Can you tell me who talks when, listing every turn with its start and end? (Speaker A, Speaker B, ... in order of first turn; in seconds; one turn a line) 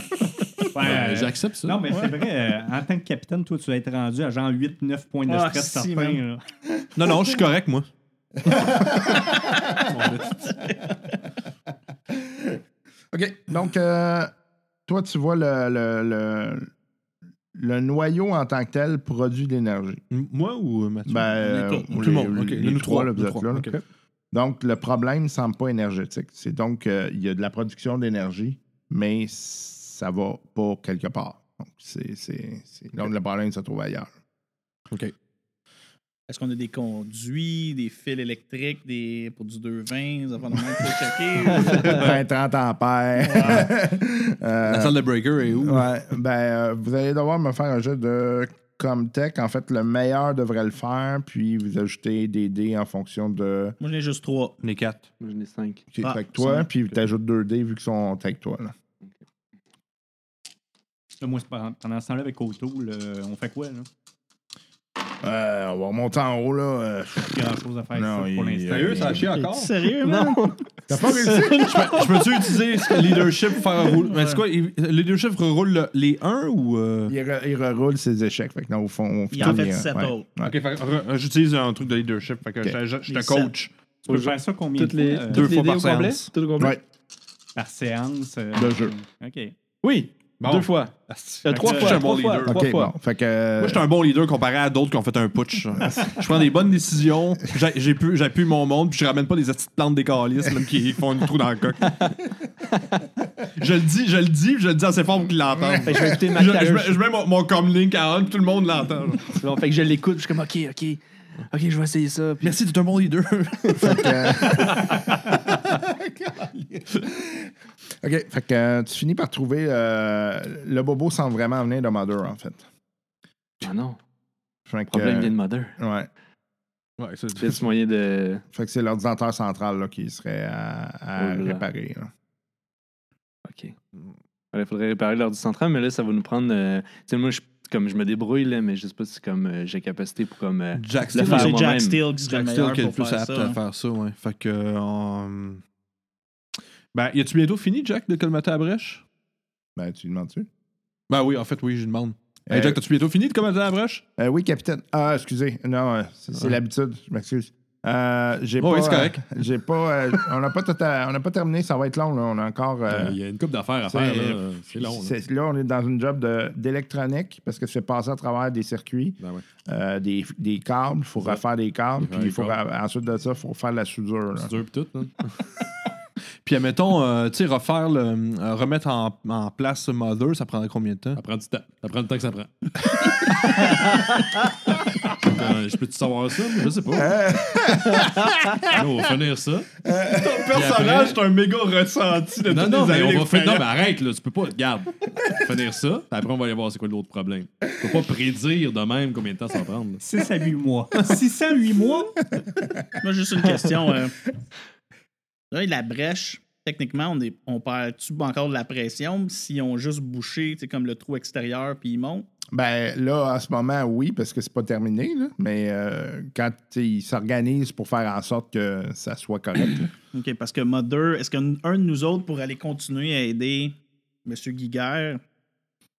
Speaker A: 0.7-6.4
Speaker B: 0.8-1.8
Speaker C: 5.3-6.2
Speaker D: 6.9-7.9
Speaker E: 8.5-9.6
Speaker D: 9.8-10.5
Speaker C: 10.5-10.9
Speaker E: 12.1-12.6
Speaker E: 13.1-14.3
Speaker E: 14.9-16.7
Speaker E: 17.5-20.0
Speaker D: 20.1-23.8
Speaker E: 21.1-23.7
Speaker C: 21.4-21.9
Speaker E: 24.3-34.1
Speaker C: 36.3-42.1
Speaker E: 41.6-53.8
Speaker C: 43.2-43.7
Speaker D: 44.6-45.9
Speaker C: 53.8-54.6
Speaker D: 54.6-55.1
Speaker F: 55.2-55.8
Speaker E: 55.9-58.7
Speaker C: 56.0-56.7
Speaker A: 61.2-63.9
Speaker E: 65.2-69.3
Speaker A: 67.2-69.3
Speaker D: 68.7-69.7
Speaker C: 69.3-70.5
Speaker F: 70.0-73.4
Speaker E: 70.9-71.9
Speaker D: 71.7-77.1
Speaker C: 74.0-74.4
Speaker E: 77.1-80.5
Speaker C: 79.3-80.2
Speaker D: 80.4-84.3
Speaker C: 83.1-83.5
Speaker A: 84.1-85.6
Speaker F: 84.1-86.7
Speaker D: 85.3-86.3
Speaker A: 87.5-89.5
Speaker E: 88.5-88.9
Speaker F: 89.8-92.9
Speaker D: 90.4-92.8
Speaker A: 91.5-92.1
Speaker E: 92.4-93.8
Speaker D: 93.6-102.0
Speaker D: 103.5-109.4
Speaker F: 105.8-107.0
Speaker F: 109.2-112.5
Speaker D: 112.4-114.6
Speaker E: 113.8-114.9
Speaker F: 113.9-114.8
Speaker E: 115.7-122.6
Speaker F: 123.6-124.0
Speaker E: 124.7-126.1
Speaker F: 124.9-125.8
Speaker D: 127.0-127.6
Speaker F: 127.3-128.4
Speaker E: 128.5-132.1
Speaker F: 131.2-131.7
Speaker F: 133.4-133.8
Speaker F: 134.5-142.0
Speaker D: 140.7-145.6
Speaker C: 141.1-143.6
Speaker D: 146.9-149.0
Speaker E: 149.8-150.5
Speaker D: 151.1-154.0
Speaker E: 152.5-152.8
Speaker E: 154.2-163.2
Speaker D: 158.6-159.2
Speaker B: 162.9-165.1
Speaker E: 163.8-174.5
Speaker B: 169.2-169.4
Speaker B: 172.0-172.6
Speaker B: 174.4-175.1
Speaker D: 176.4-181.2
Speaker B: 181.2-184.0
Speaker B: 185.0-187.3
Speaker E: 187.0-188.8
Speaker B: 188.6-189.8
Speaker E: 189.8-190.4
Speaker D: 190.0-193.7
Speaker B: 190.5-191.2
Speaker B: 192.5-200.0
Speaker A: 200.0-202.2
Speaker C: 203.0-204.2
Speaker C: 205.5-212.3
Speaker E: 212.5-219.9
Speaker C: 220.1-225.2